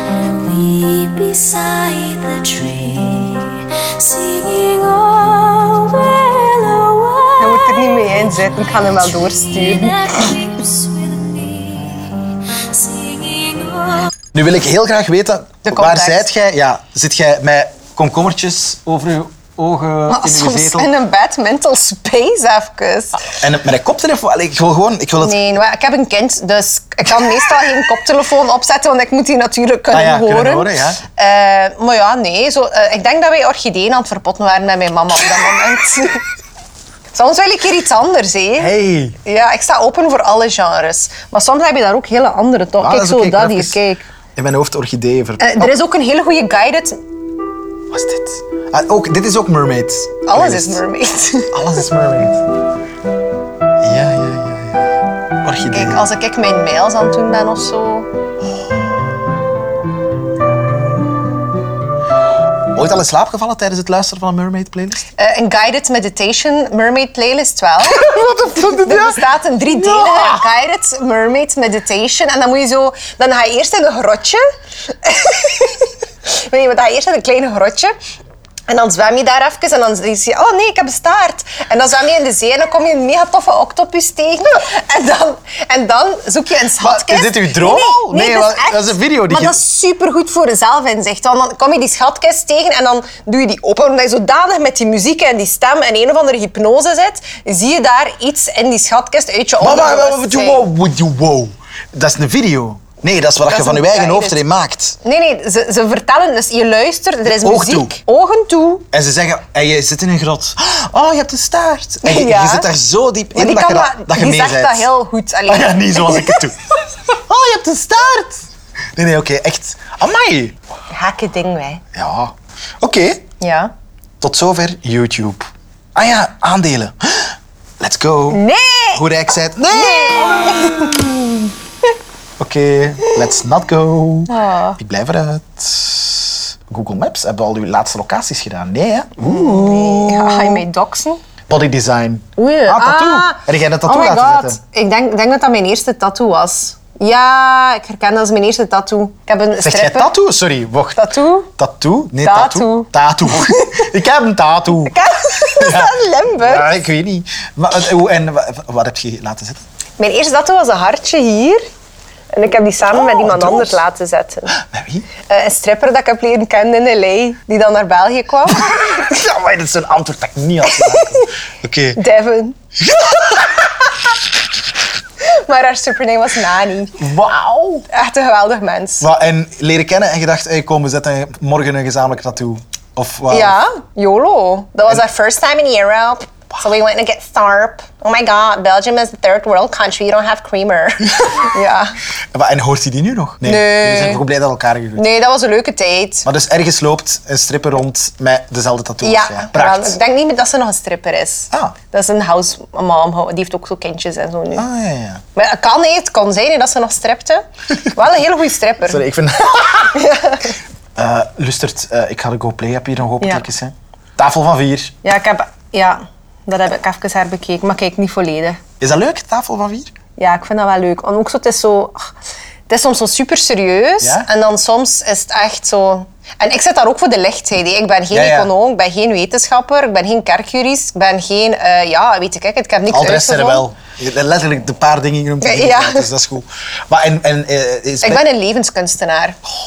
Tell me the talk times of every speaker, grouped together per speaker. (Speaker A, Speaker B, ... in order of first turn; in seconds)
Speaker A: 0.2-7.4, 10.0-14.1
Speaker B: 7.4-10.4, 15.6-16.3, 20.1-23.3, 25.2-36.2, 37.1-38.7, 39.2-44.1, 45.4-47.0, 50.3-51.6, 55.7-58.1, 65.2-68.1, 68.8-78.0, 78.7-100.7, 103.5-104.4, 105.0-108.9, 112.0-112.7, 113.3-116.5, 120.9-121.8, 123.4-123.7, 128.3-129.1, 129.7-131.0, 134.3-134.8, 139.2-141.2, 142.4-150.1, 151.0-151.5, 152.2-153.9, 154.8-156.8, 160.0-161.6, 162.3-164.6, 165.3-169.1, 170.6-171.3, 172.0-172.6, 175.2-177.1, 177.9-179.1, 183.3-192.0, 193.4-194.2, 195.0-196.3, 199.0-204.7, 205.3-209.1, 209.9-210.6, 213.2-213.5, 215.0-218.6, 220.2-222.0, 222.7-233.7, 235.4-236.1, 238.0-239.4
Speaker C: 14.3-20.9, 23.4-25.4, 29.9-31.0, 38.6-39.2, 42.8-43.8, 44.4-45.7, 47.9-50.8, 51.5-52.5, 53.8-56.1, 62.7-65.0, 67.8-69.2, 69.7-70.5, 86.8-89.6, 99.6-105.0, 107.2-108.0, 108.9-114.9, 115.5-116.5, 117.1-120.6, 122.0-123.3, 124.2-128.4, 128.9-131.5, 132.4-140.7, 141.5-144.6, 149.6-151.0, 151.6-154.9, 155.6-159.6, 162.9-163.8, 164.5-165.1, 168.5-172.0, 172.8-173.7, 177.0-177.9, 179.0-183.6, 192.3-195.1, 196.3-200.0, 204.5-205.2, 208.8-210.0, 211.0-215.0, 218.8-219.9, 224.0-224.3, 228.1-228.5, 232.9-238.3